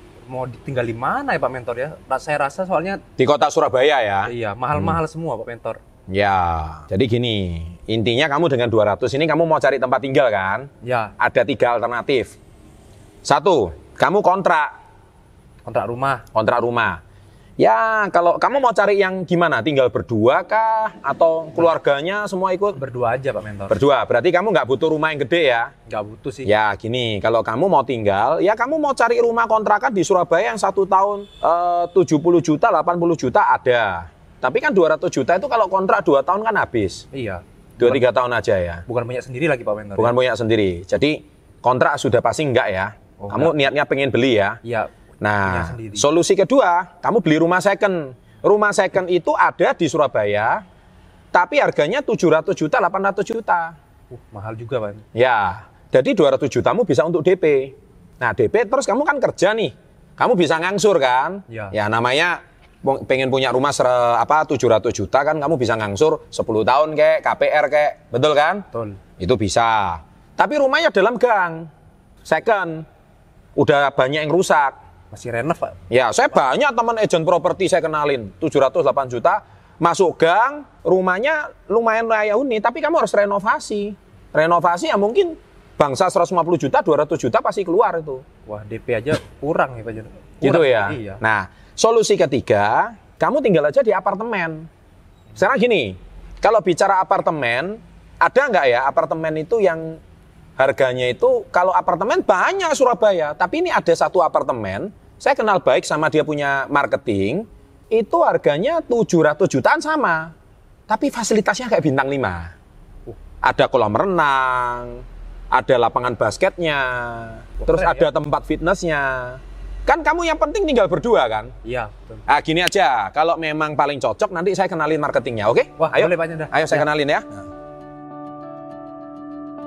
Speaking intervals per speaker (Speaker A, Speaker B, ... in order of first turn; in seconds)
Speaker A: 0.3-3.0, 4.3-5.8, 10.8-11.1, 15.6-16.2, 22.8-23.8, 25.9-26.5, 37.1-38.0, 38.9-40.1, 43.2-43.6, 44.6-44.9, 45.4-46.0, 54.1-55.0, 61.5-61.8, 68.7-69.0, 75.1-75.8, 88.5-91.2, 117.6-118.1, 121.6-122.2, 125.8-126.9
Speaker B: 3.2-4.3, 6.1-12.3, 13.2-14.7, 16.3-17.0, 17.6-22.8, 23.7-25.7, 26.4-37.0, 37.8-38.8, 40.0-44.6, 45.2-50.6, 51.3-53.8, 55.1-68.7, 69.2-71.7, 72.2-72.8, 73.5-74.8, 75.9-88.2, 90.4-94.7, 95.3-100.0, 100.6-110.3, 110.9-112.5, 113.4-121.5, 122.3-127.4